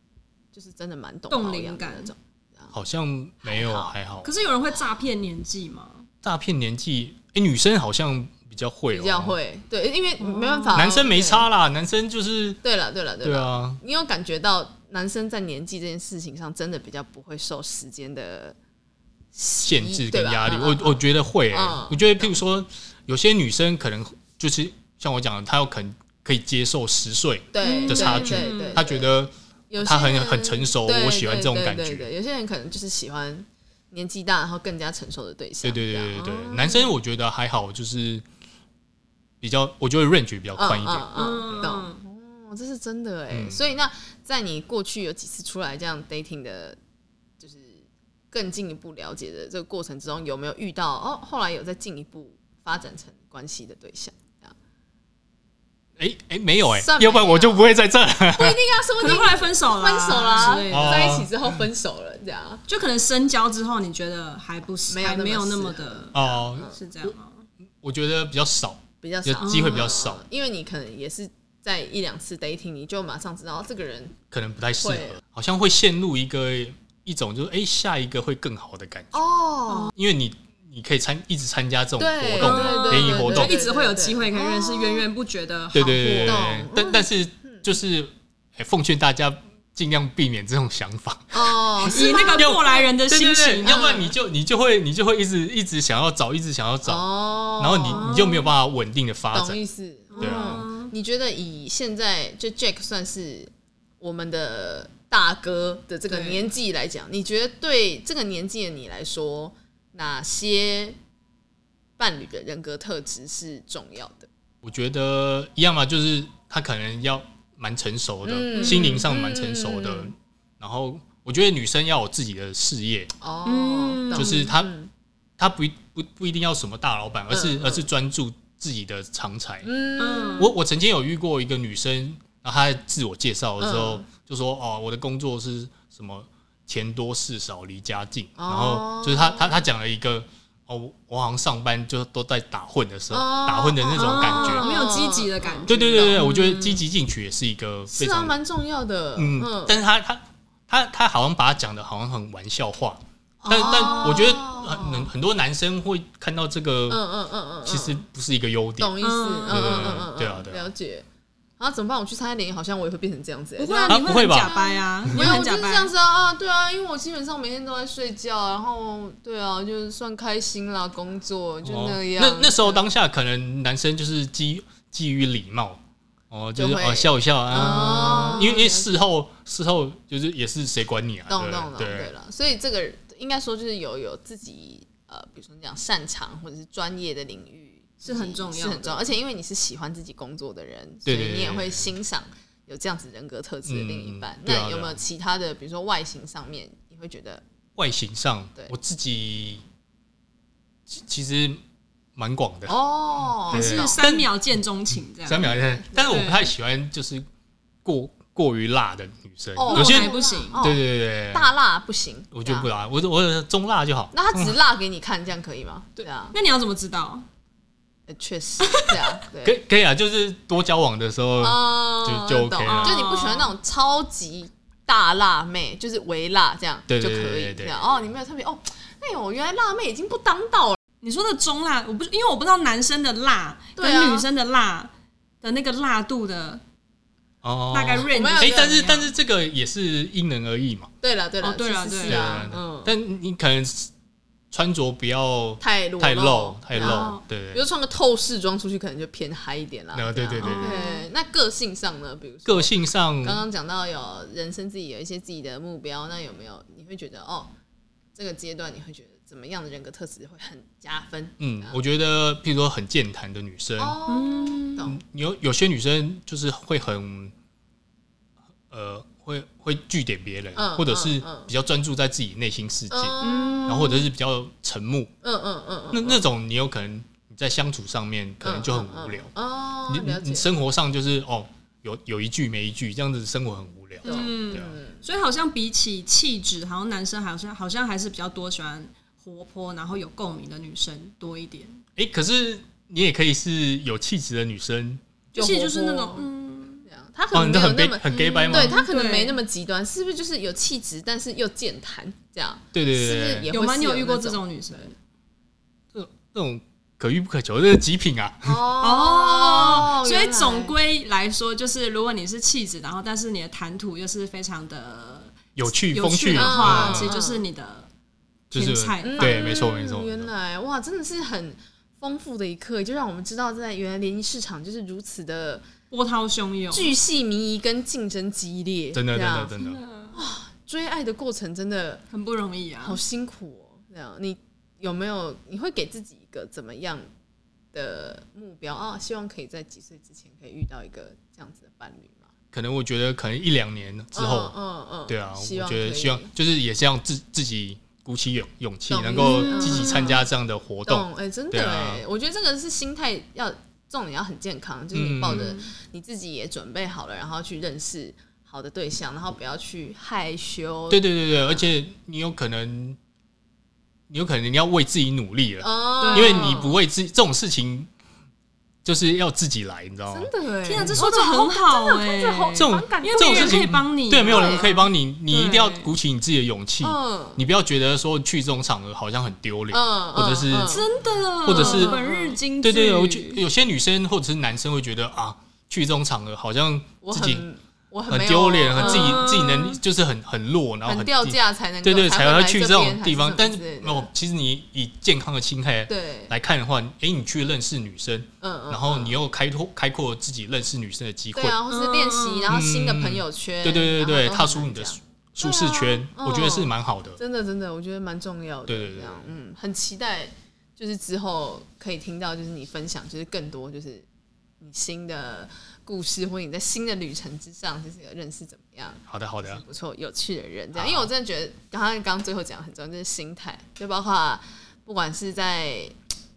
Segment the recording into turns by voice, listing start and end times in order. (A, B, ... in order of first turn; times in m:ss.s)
0:00.5-0:02.7 A
0:01.3-0:02.1 B
0:02.7-0:04.3 C
0:03.4-0:03.9 A
0:04.2-0:06.1 B
0:06.2-0:09.4 C
0:08.9-0:11.5 A
0:10.2-0:10.8 B
0:10.7-0:12.6 C
0:12.6-0:18.6 A
0:13.2-0:13.8 C
0:19.3-0:22.4 A
0:19.6-0:32.1 C
0:27.5-0:29.1 A
0:27.6-0:28.8 B
0:29.7-0:36.9 A
0:35.6-0:38.2 C
0:39.4-0:41.7 C
0:40.5-0:46.8 A
0:41.1-0:42.0 B
0:43.3-0:43.6 C
0:47.4-0:54.5 A
0:56.0-0:58.6 C
0:56.7-1:02.6 A
0:59.0-1:01.3 B
1:00.4-1:01.3 C
1:02.7-1:07.5 B
1:04.9-1:06.8 A
1:06.1-1:07.1 C
1:07.8-1:10.2 C
1:09.0-1:14.1 A
1:09.4-1:09.9 B
1:14.3-1:19.2 C
1:14.8-1:15.2 A
1:19.1-1:19.9 A
1:19.9-1:23.5 C
1:22.0-1:25.1 A
1:22.4-1:26.4 B
1:25.7-1:37.1 C
1:25.8-1:27.6 A
1:31.3-1:32.9 A
1:31.9-1:34.1 B
1:33.6-1:34.1 A
1:36.8-1:38.1 A
1:37.6-1:39.6 C
1:37.9-1:38.5 B
1:39.3-1:51.0 A
1:40.1-1:40.9 B
1:40.2-1:40.7 C
1:46.1-1:46.4 B
1:52.0-1:54.3 A
1:54.6-2:03.1 C
1:58.2-2:00.1 A
1:58.5-1:59.1 B
2:03.2-2:04.9 A
2:03.4-2:04.5 B
2:04.1-2:04.7 C
2:05.4-2:09.7 C
2:07.3-2:07.9 A
2:09.6-2:10.5 A
2:10.0-2:10.5 B
2:10.4-2:24.7 C
2:13.6-2:14.0 A
2:18.4-2:19.7 A
2:23.1-2:26.2 A
2:24.0-2:26.8 B
2:25.7-2:28.3 C
2:27.9-2:29.8 A
2:29.2-2:37.0 C
2:33.4-2:34.4 B
2:33.5-2:35.1 A
2:36.9-2:38.0 A
2:37.6-2:38.9 C
2:38.8-2:41.0 A
2:39.0-2:40.0 B
2:39.5-2:40.7 C
2:41.6-2:52.8 A
2:43.6-2:45.9 B
2:43.9-2:44.5 C
2:51.6-3:02.1 C
2:56.6-2:58.9 A
2:57.7-2:58.6 B
3:01.3-3:17.4 A
3:08.0-3:09.1 B
3:11.0-3:11.9 C
3:13.6-3:15.0 C
3:17.8-3:19.6 C
3:20.9-3:21.6 C
3:22.2-3:22.8 C
3:22.7-3:24.0 A
3:23.5-3:24.3 C
3:23.5-3:25.5 B
3:25.2-3:27.2 C
3:25.3-3:26.3 A
3:26.1-3:26.5 B
3:27.8-3:31.5 C
3:29.6-3:32.7 A
3:29.6-3:30.7 B
3:32.3-3:34.6 C
3:34.1-3:36.4 A
3:36.3-3:37.2 B
3:38.1-3:39.6 A
3:38.6-3:39.1 B
3:39.4-3:43.0 C
3:41.4-3:50.8 A
3:42.6-3:43.5 B
3:46.9-3:48.0 C
3:51.0-3:56.6 B
3:53.8-3:54.2 A
3:57.4-4:00.9 C
3:57.7-3:59.1 B
3:58.1-3:59.0 A
4:01.0-4:02.9 A
4:01.4-4:02.5 B
4:02.0-4:03.9 C
4:04.5-4:07.6 C
4:05.6-4:17.5 A
4:06.7-4:07.2 B
4:09.9-4:10.8 C
4:10.4-4:11.0 B
4:12.4-4:13.4 C
4:18.2-4:21.8 A
4:21.4-4:24.0 C
4:23.8-4:25.0 A
4:24.1-4:24.9 B
4:24.8-4:27.3 C
4:28.7-4:33.1 C
4:30.6-4:31.5 A
4:32.9-4:34.0 A
4:33.2-4:34.0 B
4:33.6-4:35.1 C
4:35.2-4:36.2 A
4:35.9-4:39.3 C
4:38.4-4:40.5 A
4:39.9-4:44.7 C
4:44.0-4:51.8 B
4:44.0-4:45.0 A
4:52.0-4:55.0 C
4:55.3-4:56.3 A
4:55.3-4:56.8 B
4:56.8-5:04.8 A
4:57.3-4:58.8 C
4:58.1-4:59.4 B
5:02.7-5:03.5 C
5:03.5-5:05.0 B
5:05.9-5:08.6 C
5:08.4-5:10.7 A
5:08.8-5:17.9 B
5:15.6-5:17.2 C
5:16.3-5:17.4 A
5:18.5-5:19.6 B
5:18.5-5:20.3 C
5:19.0-5:25.6 A
5:25.9-5:26.9 B
5:26.7-5:29.5 A
5:28.9-5:29.8 C
5:29.6-5:30.2 B
5:30.1-5:32.0 A
5:32.1-5:33.0 B
5:32.8-5:37.1 A
5:37.7-5:42.3 A
5:42.5-5:44.6 C
5:44.1-5:46.3 A
5:45.1-5:52.0 C
5:48.9-5:50.2 A
5:49.2-5:50.2 B
5:50.8-6:01.7 A
5:54.9-5:55.6 C
5:55.2-5:55.7 B
6:00.9-6:03.0 C
6:04.1-6:07.9 C
6:05.6-6:06.8 A
6:06.0-6:06.6 B
6:08.8-6:10.3 C
6:10.1-6:13.6 A
6:10.6-6:15.9 B
6:10.8-6:11.1 C
6:12.6-6:20.8 C
6:14.2-6:14.7 A
6:16.8-6:17.4 A
6:19.7-6:20.8 A
6:20.7-6:23.4 B
6:21.4-6:22.0 C
6:21.5-6:22.4 A
6:22.6-6:27.5 C
6:27.0-6:29.2 A
6:28.1-6:41.6 C
6:28.8-6:29.8 B
6:30.8-6:34.1 A
6:35.9-6:36.3 A
6:38.4-6:39.2 A
6:41.3-6:54.0 A
6:41.7-6:42.6 B
6:42.5-6:47.2 C
6:48.7-6:49.3 C
6:54.6-7:05.9 A
6:59.1-6:59.6 C
7:00.7-7:01.1 C